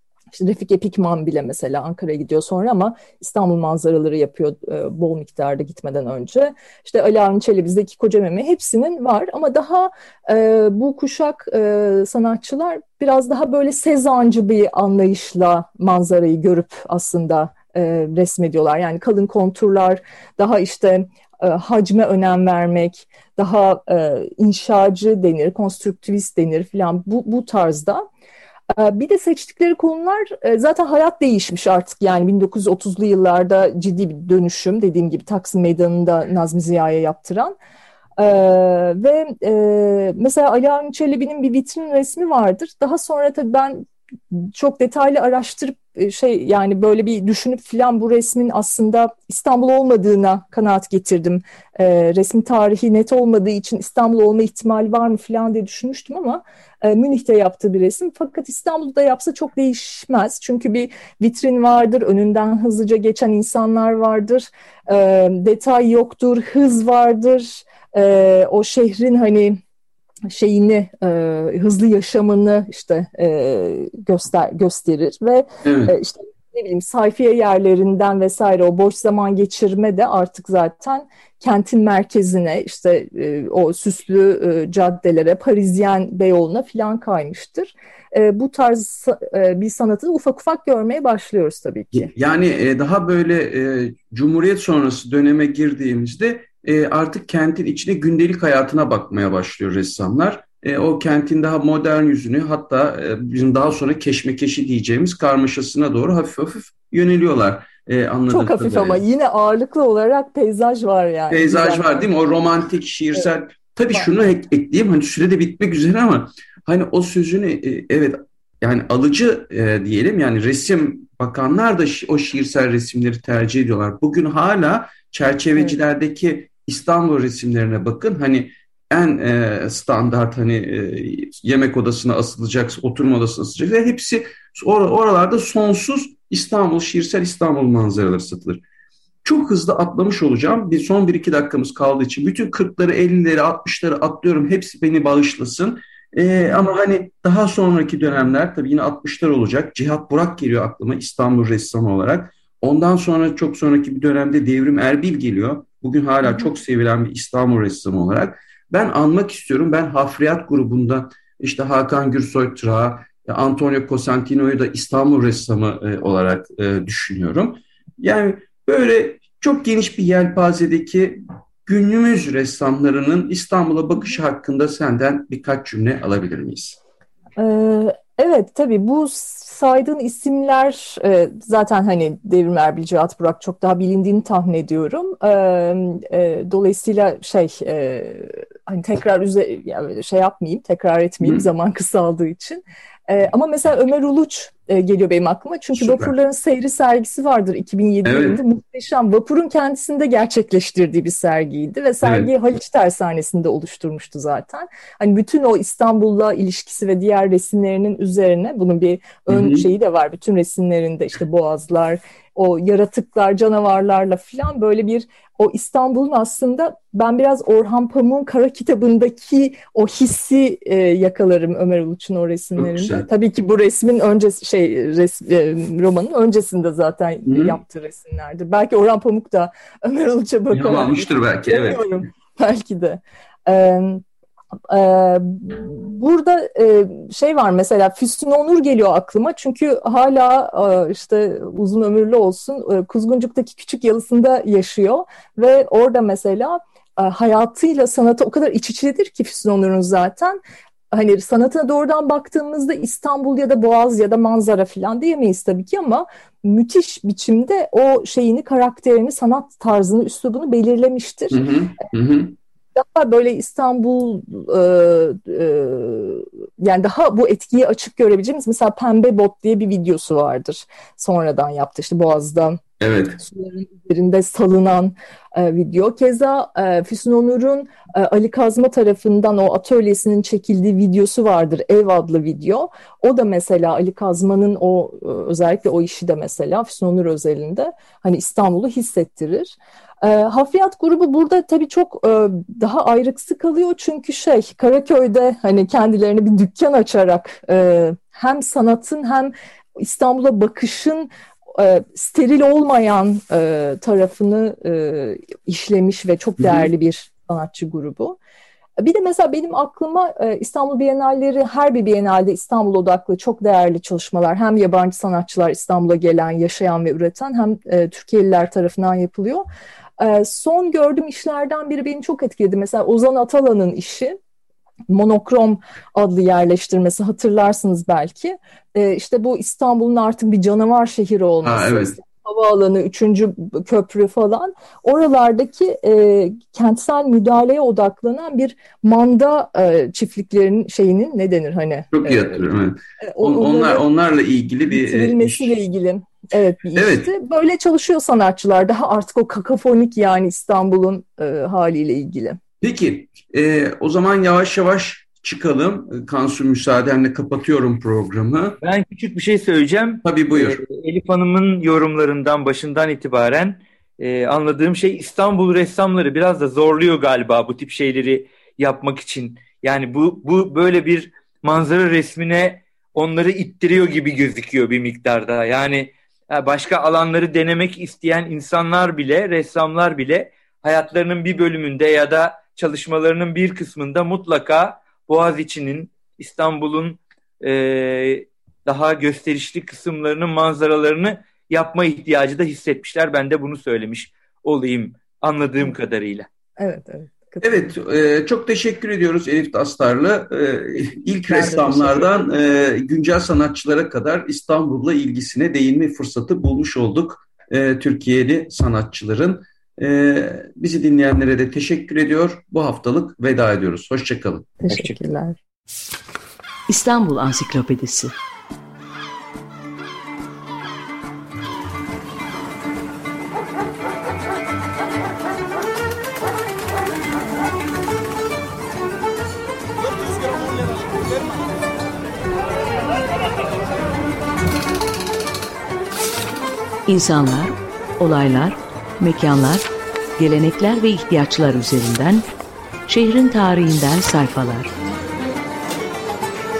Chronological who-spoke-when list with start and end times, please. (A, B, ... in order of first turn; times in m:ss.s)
0:00.3-0:28.0 A
0:28.7-0:37.5 A
0:38.2-1:09.6 A
1:10.3-1:32.1 A
1:15.6-1:15.9 B
1:31.9-1:49.0 B
1:48.3-1:52.1 A
1:51.3-2:18.6 B
2:19.2-2:56.8 B
2:57.4-3:54.0 A
3:15.7-3:16.1 B
3:18.0-3:18.4 B
3:22.0-3:22.3 B
3:29.3-3:29.7 B
3:42.6-3:43.0 B
3:47.3-3:47.6 B
3:50.5-3:51.8 B
3:54.7-4:10.4 A
4:10.9-4:21.5 A
4:21.3-4:22.3 B
4:22.7-4:32.6 A
4:32.8-4:33.2 B
4:33.2-5:08.2 A
5:06.4-5:06.7 B
5:08.8-5:19.4 A
5:20.0-5:24.2 A
5:24.9-5:42.4 A
5:31.4-5:32.0 B
5:41.9-5:45.5 B
5:43.0-5:43.8 A
5:44.7-5:52.4 A
5:46.8-5:47.1 B
5:52.6-5:58.6 B
5:58.6-6:36.3 C
6:00.0-6:00.6 B
6:36.6-6:37.7 A
6:37.4-6:54.9 B
6:41.3-6:42.2 A
6:54.6-6:55.4 A
6:56.7-6:58.1 D
7:16.9-7:22.2 D
7:22.9-7:24.7 D